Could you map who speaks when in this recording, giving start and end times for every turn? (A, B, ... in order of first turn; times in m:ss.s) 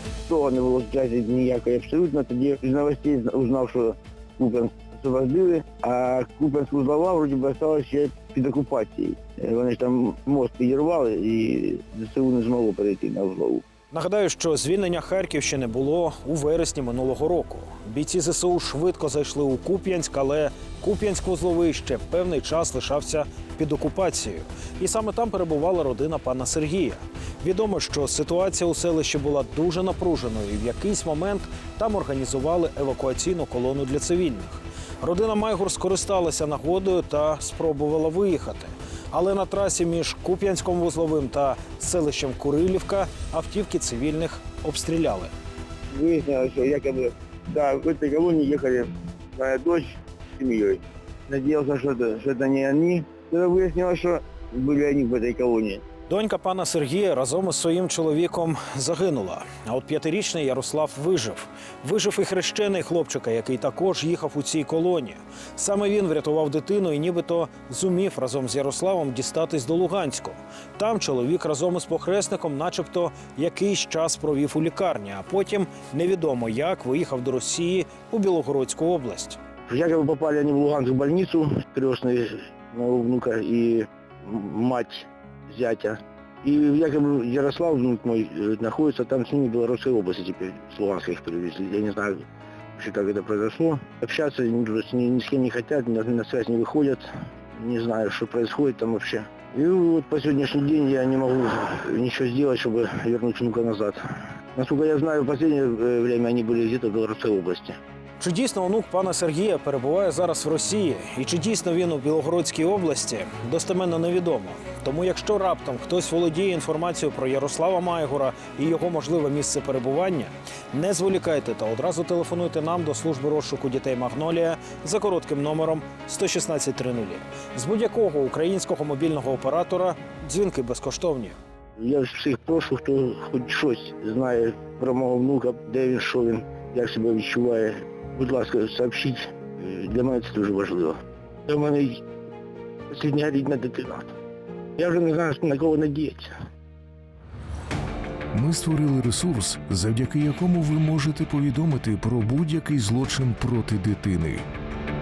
0:00.3-0:13.6 A
0:13.9-0:45.3 B
0:45.9-0:55.8 A
0:56.1-1:19.4 B
1:19.7-1:32.2 A
1:32.8-1:44.0 A
1:44.5-1:47.8 A
1:48.2-2:11.4 B
2:11.8-2:22.0 A
2:22.9-2:24.1 A
2:24.8-2:26.3 A
2:28.3-2:34.4 C